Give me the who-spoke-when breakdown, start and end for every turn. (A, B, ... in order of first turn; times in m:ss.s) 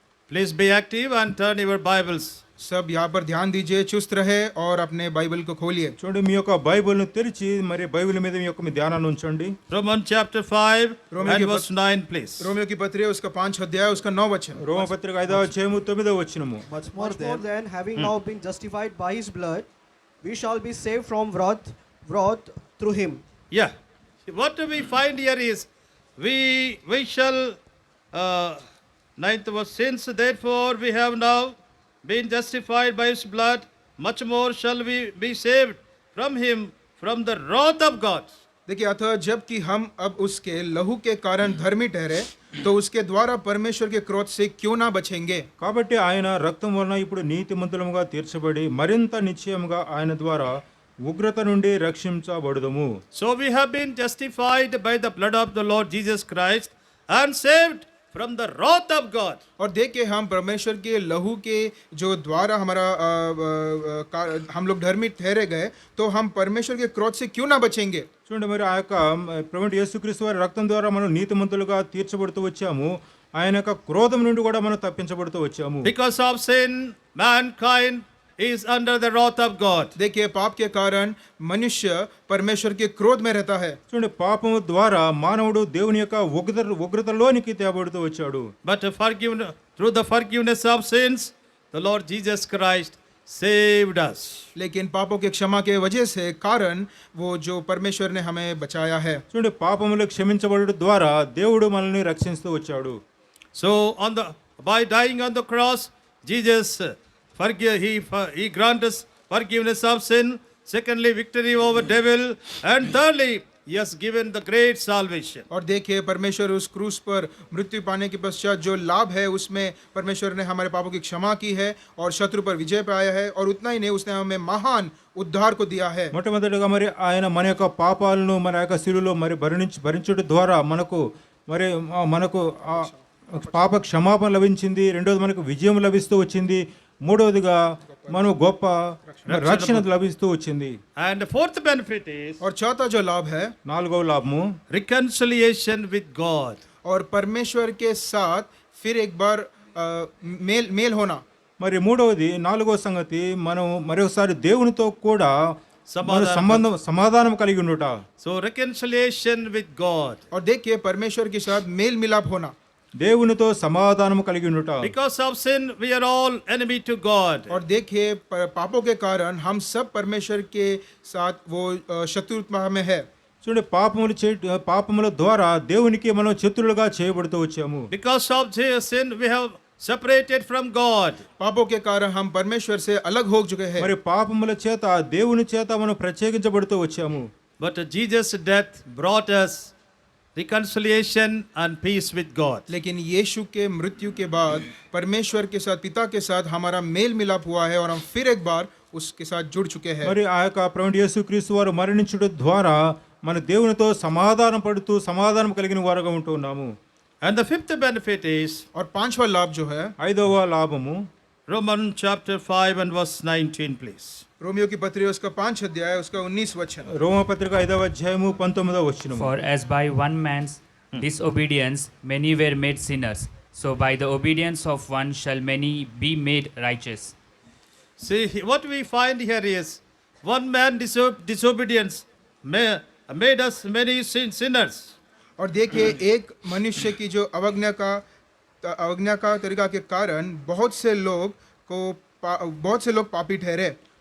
0:00.3-0:02.4 A
0:02.6-0:06.0 B
0:06.0-0:09.6 C
0:09.7-0:12.5 A
0:11.1-0:11.7 B
0:12.4-0:14.9 B
0:14.6-0:16.6 C
0:16.7-0:19.7 D
0:17.0-0:17.4 A
0:20.2-0:23.2 D
0:24.3-0:27.6 A
0:28.1-0:28.6 A
0:29.2-0:38.3 A
0:38.7-0:45.5 B
0:45.6-0:52.9 C
0:53.1-0:59.4 A
0:59.6-1:08.1 B
1:08.3-1:15.9 C
1:15.8-1:20.0 A
1:20.0-1:23.8 B
1:23.9-1:28.5 C
1:28.6-1:34.4 A
1:34.6-1:39.2 B
1:39.3-1:43.0 C
1:43.6-1:55.4 A
1:55.5-2:06.1 B
2:06.1-2:17.6 C
2:17.9-2:18.3 B
2:18.1-2:20.8 C
2:19.1-2:19.3 B
2:19.3-2:19.9 A
2:21.0-2:22.4 A
2:22.4-2:23.5 B
2:23.7-2:24.4 C
2:24.7-2:26.6 A
2:26.8-2:31.2 B
2:31.6-2:35.3 C
2:35.9-2:36.6 A
2:36.0-2:38.0 C
2:38.2-2:40.2 A
2:40.3-2:42.5 B
2:43.0-2:44.9 C
2:44.8-2:47.5 A
2:47.5-2:53.0 B
2:53.4-2:57.9 C
2:57.9-3:01.2 A
3:01.4-3:03.9 B
3:03.8-3:07.3 C
3:07.6-3:09.7 A
3:10.4-3:12.7 A
3:12.7-3:20.1 B
3:20.0-3:26.7 C
3:27.2-3:28.6 A
3:28.7-3:29.9 B
3:30.0-3:31.0 C
3:31.5-3:34.2 A
3:34.4-3:36.9 B
3:36.9-3:39.3 C
3:39.1-3:47.1 E
3:48.0-3:54.9 A
3:55.4-3:58.0 B
3:58.6-4:03.8 B